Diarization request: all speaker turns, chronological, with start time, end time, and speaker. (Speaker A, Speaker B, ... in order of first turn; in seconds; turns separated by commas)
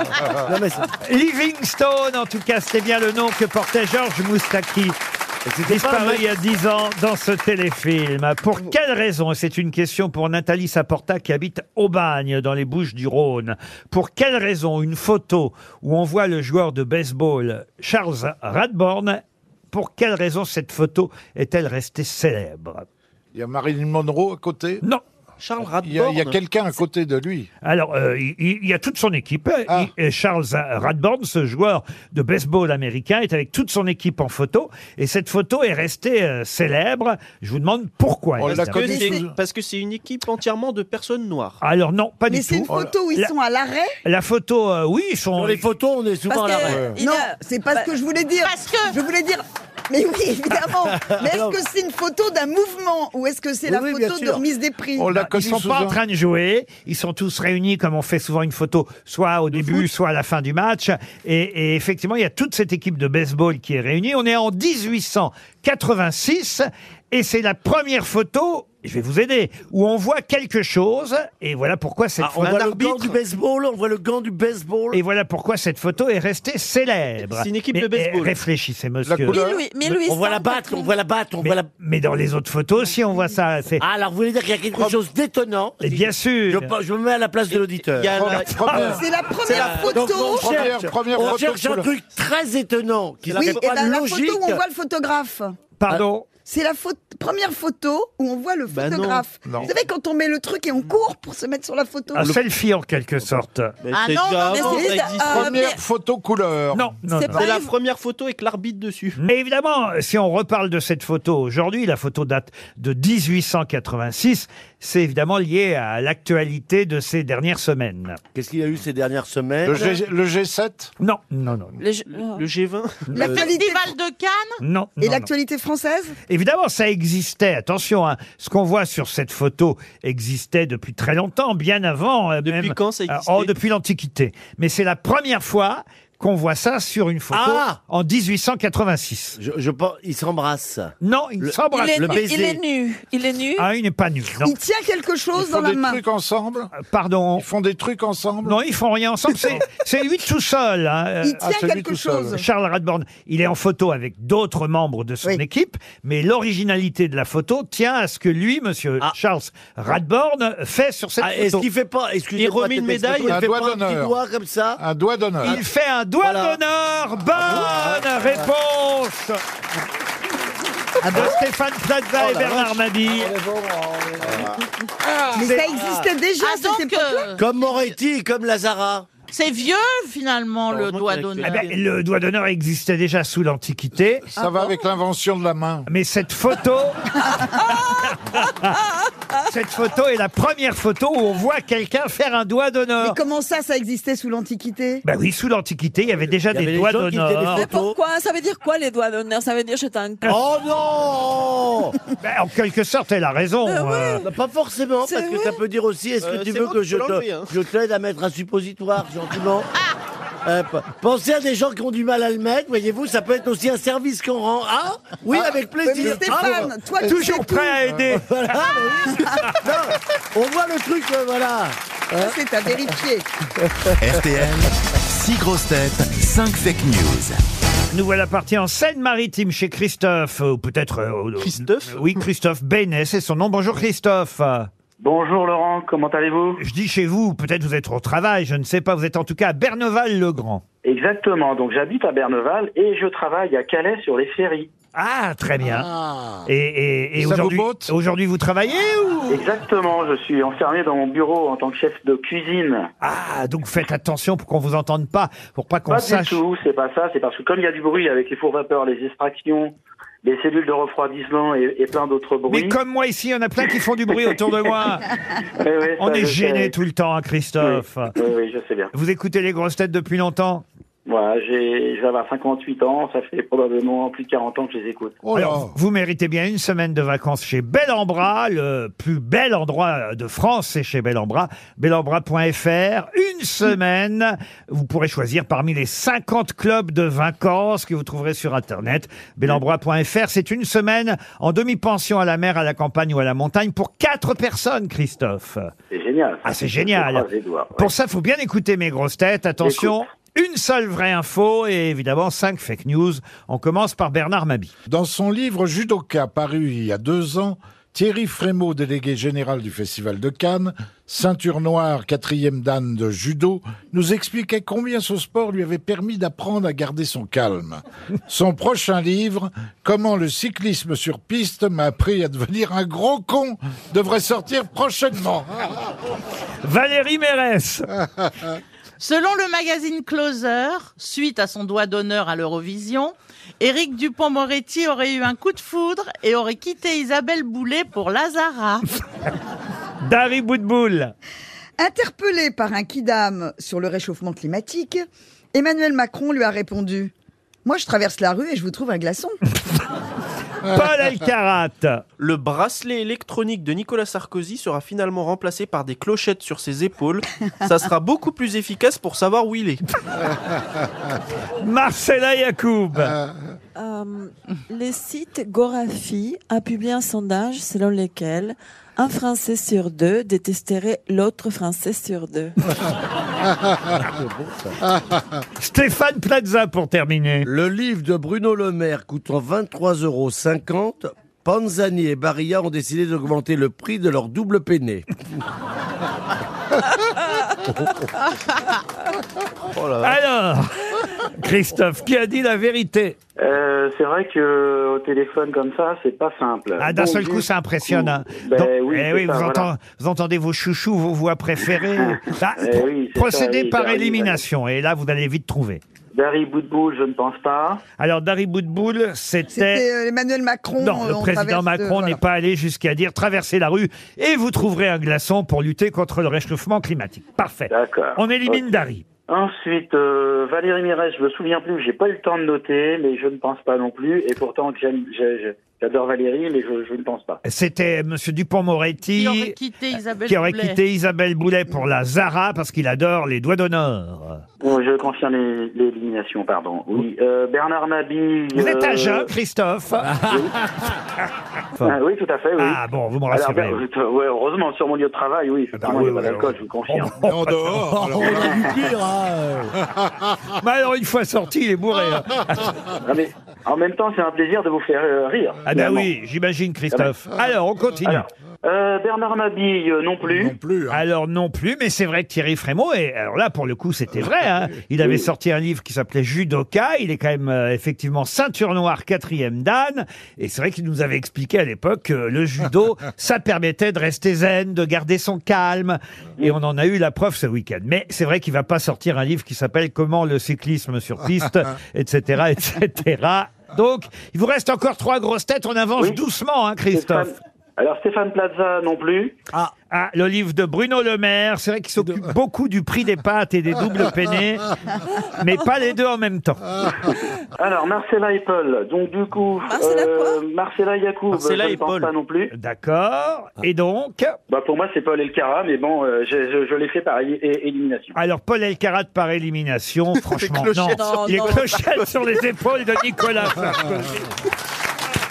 Speaker A: 0.2-0.5, Speaker B: 0.4-0.9, Speaker C: 1.0-5.0, Speaker B: 5.5-6.4, Speaker C: 5.7-19.2, Speaker C: 19.7-22.9, Speaker A: 23.3-24.8, Speaker D: 25.4-26.4, Speaker A: 25.6-27.5, Speaker C: 27.6-39.0, Speaker A: 38.4-39.3, Speaker D: 38.5-41.6, Speaker E: 38.8-39.2, Speaker C: 41.6-43.3, Speaker E: 42.3-44.0, Speaker A: 42.7-42.9, Speaker C: 44.0-45.7, Speaker B: 45.4-46.9, Speaker F: 46.3-47.9, Speaker A: 46.7-47.0, Speaker E: 47.0-55.1, Speaker G: 48.4-49.0, Speaker B: 50.9-51.6, Speaker B: 53.7-54.4, Speaker A: 55.0-56.0, Speaker C: 55.1-72.7, Speaker B: 72.2-75.0, Speaker D: 72.4-73.1, Speaker C: 74.9-79.4, Speaker D: 77.2-78.4, Speaker A: 79.0-79.7, Speaker F: 79.3-80.9, Speaker B: 80.0-81.7, Speaker C: 81.4-83.8, Speaker B: 83.8-88.3, Speaker C: 85.8-86.7, Speaker D: 87.5-90.1, Speaker A: 88.1-89.1, Speaker C: 88.6-89.0, Speaker E: 88.9-90.7, Speaker B: 89.6-94.6, Speaker A: 90.3-91.9, Speaker D: 93.3-93.7, Speaker E: 93.3-95.6, Speaker C: 95.8-96.3, Speaker E: 96.5-102.3, Speaker D: 98.7-99.7, Speaker A: 99.5-99.7, Speaker C: 102.1-103.8, Speaker D: 103.8-105.7, Speaker G: 104.0-105.0, Speaker F: 104.1-105.8, Speaker A: 105.2-106.9, Speaker C: 106.7-107.4, Speaker F: 107.1-107.7, Speaker D: 107.3-109.2, Speaker C: 109.2-118.2, Speaker B: 118.3-120.0, Speaker A: 119.6-120.9, Speaker C: 121.0-121.8, Speaker F: 121.8-122.5, Speaker D: 122.1-123.4, Speaker E: 123.1-123.9, Speaker G: 123.3-124.6, Speaker C: 124.6-125.3, Speaker E: 125.0-126.2, Speaker C: 126.3-139.4, Speaker D: 132.4-133.5, Speaker B: 137.3-137.8, Speaker B: 139.4-142.6, Speaker C: 141.0-142.2, Speaker F: 141.7-143.7, Speaker C: 143.6-144.5, Speaker E: 144.4-146.0, Speaker A: 145.3-146.7, Speaker C: 146.8-147.4, Speaker A: 147.4-148.6, Speaker C: 148.4-151.4, Speaker E: 151.2-152.4, Speaker A: 151.4-152.4, Speaker C: 152.3-161.7, Speaker B: 161.2-164.8, Speaker D: 162.4-163.4, Speaker A: 163.2-164.2, Speaker A: 164.8-165.6, Speaker C: 165.4-169.4, Speaker B: 166.2-166.6, Speaker B: 167.4-168.5, Speaker E: 171.0-171.4, Speaker C: 171.1-173.3, Speaker B: 172.2-172.7, Speaker B: 174.0-174.4, Speaker A: 174.2-174.5, Speaker E: 175.3-177.3, Speaker B: 175.6-176.1, Speaker G: 176.4-177.9, Speaker B: 177.4-179.1, Speaker G: 179.3-181.7, Speaker D: 180.7-181.7, Speaker C: 181.4-184.3, Speaker A: 184.3-185.9, Speaker C: 185.9-188.8, Speaker C: 189.5-193.2, Speaker E: 193.0-195.0, Speaker C: 195.0-197.7, Speaker B: 196.5-198.0, Speaker F: 197.5-200.4, Speaker B: 200.3-202.0, Speaker C: 202.2-204.2, Speaker F: 203.7-204.3, Speaker B: 204.2-209.7, Speaker F: 205.1-205.6, Speaker D: 206.2-207.6, Speaker B: 210.4-216.7, Speaker E: 215.8-217.8, Speaker C: 217.0-218.4, Speaker B: 218.1-222.3, Speaker E: 222.2-223.3, Speaker H: 224.0-227.4, Speaker C: 227.9-234.7, Speaker D: 231.4-232.2, Speaker I: 235.0-236.6, Speaker C: 236.6-240.6, Speaker I: 240.8-244.7, Speaker C: 244.9-245.9, Speaker A: 245.6-246.5, Speaker C: 246.5-249.5, Speaker A: 247.2-247.9, Speaker I: 249.3-252.9, Speaker C: 253.0-256.4, Speaker I: 255.9-262.8, Speaker C: 262.5-265.1, Speaker I: 264.2-264.7, Speaker I: 265.6-266.7, Speaker C: 266.0-268.1, Speaker I: 267.6-268.9, Speaker C: 268.9-270.6, Speaker I: 271.1-275.2, Speaker A: 275.2-275.7, Speaker C: 275.3-295.7, Speaker I: 295.9-297.9, Speaker C: 296.4-304.7, Speaker I: 299.6-300.0, Speaker A: 304.9-325.8, Speaker C: 326.6-327.9, Speaker G: 329.0-338.8, Speaker C: 340.0-341.1, Speaker E: 341.8-347.1, Speaker E: 347.6-349.4, Speaker C: 350.6-352.0, Speaker D: 352.2-359.8, Speaker C: 361.6-363.2, Speaker F: 363.8-372.6, Speaker B: 374.0-374.8, Speaker C: 375.6-377.5, Speaker B: 377.4-385.1, Speaker C: 390.0-393.2, Speaker I: 393.4-399.7, Speaker C: 396.8-405.8, Speaker I: 401.6-404.4, Speaker I: 406.1-407.8, Speaker C: 408.0-409.9, Speaker E: 409.5-412.2, Speaker C: 410.8-419.1, Speaker I: 417.7-418.7, Speaker I: 419.3-427.4, Speaker C: 427.4-429.6, Speaker G: 429.1-430.8, Speaker C: 430.3-434.4, Speaker I: 434.6-439.3, Speaker C: 438.5-440.2, Speaker B: 440.0-441.0, Speaker I: 441.8-442.8, Speaker C: 442.6-443.8, Speaker I: 443.3-447.1, Speaker C: 445.8-447.9, Speaker A: 447.2-448.8, Speaker B: 447.8-449.8, Speaker A: 450.0-450.3, Speaker C: 450.6-452.8, Speaker I: 453.1-456.1, Speaker C: 455.7-458.3, Speaker I: 458.0-460.6, Speaker A: 460.2-461.0, Speaker C: 460.9-487.4, Speaker I: 465.0-465.3, Speaker I: 486.0-486.2, Speaker I: 486.9-489.4, Speaker C: 489.9-494.8, Speaker C: 495.4-497.0, Speaker I: 497.6-502.5, Speaker F: 499.6-500.4, Speaker D: 501.3-502.1, Speaker C: 502.5-504.4, Speaker I: 504.5-508.2, Speaker C: 508.1-514.3, Speaker D: 510.1-512.4, Speaker F: 510.9-511.8